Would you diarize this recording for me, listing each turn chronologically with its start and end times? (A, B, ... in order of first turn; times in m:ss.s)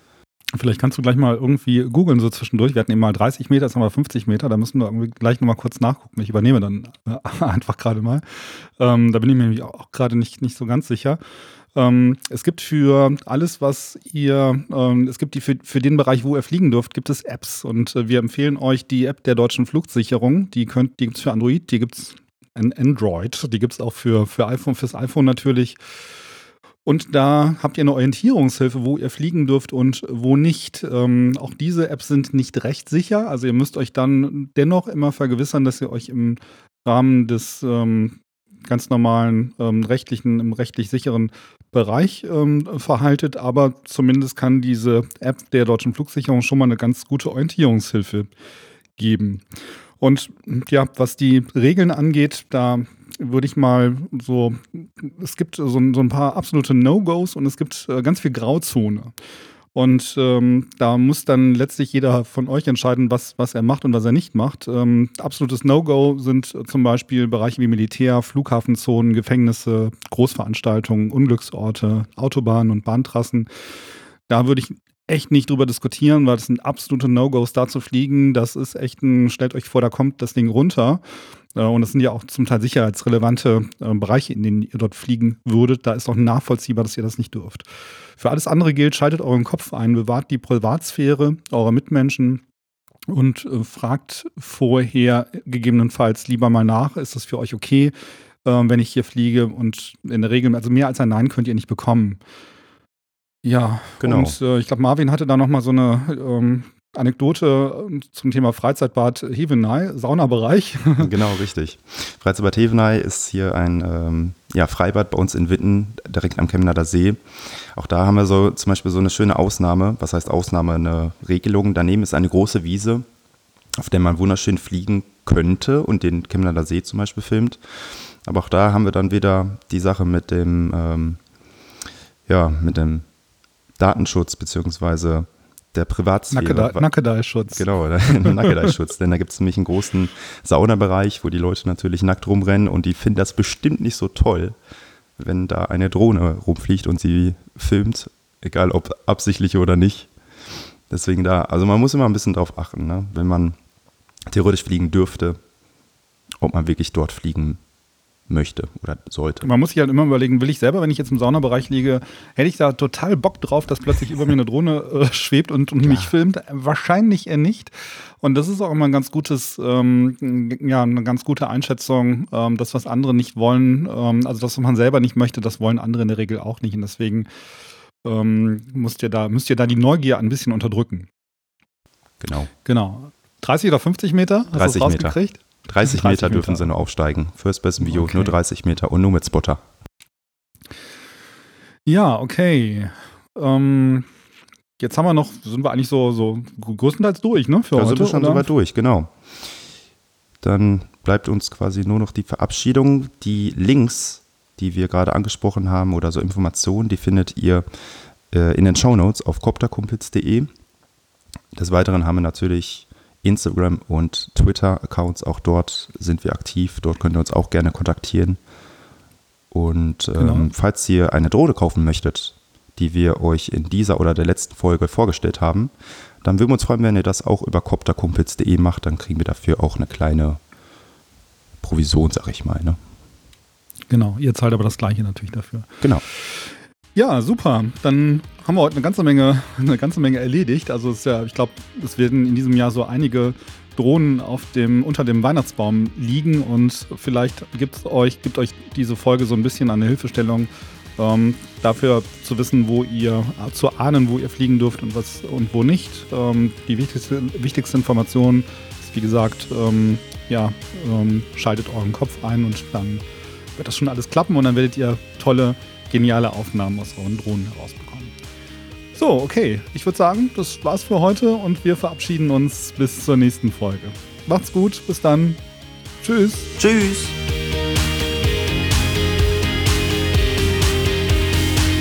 0:00.5-0:11.2 A
0:11.8-0:25.8 A
0:26.8-0:48.3 A
0:49.0-0:49.4 A
0:50.0-0:59.1 A
0:59.7-1:13.5 A
1:14.3-1:21.0 A
1:21.5-1:27.6 A
1:28.2-1:32.4 A
1:33.1-1:37.9 A
1:38.4-1:42.2 A
1:43.4-1:51.1 A
1:44.0-1:44.4 B
1:51.0-2:03.0 B
2:03.8-2:11.2 B
2:12.3-2:13.0 B
2:13.8-2:16.8 B
2:16.3-2:18.7 A
2:17.5-2:24.6 B
2:25.2-2:30.1 B
2:30.9-2:33.6 B
2:34.3-2:35.4 B
2:36.4-2:37.6 B
2:38.3-2:39.5 B
2:39.4-2:47.7 A
2:48.2-2:57.3 A
2:58.0-3:01.1 A
3:02.2-3:02.5 B
3:02.6-3:06.7 A
3:04.5-3:09.6 B
3:07.8-3:08.3 A
3:11.8-3:14.1 A
3:14.8-3:18.5 A
3:17.7-3:19.1 B
3:20.4-3:27.6 B
3:28.3-3:30.5 B
3:31.5-3:38.4 B
3:39.5-3:45.7 B
3:40.2-3:40.5 A
3:46.2-3:50.4 B
3:51.6-3:52.8 B
3:53.9-3:55.7 A
3:56.9-4:23.0 A
4:23.6-4:28.1 A
4:28.9-4:35.4 A
4:36.0-4:36.5 A
4:36.6-4:37.1 B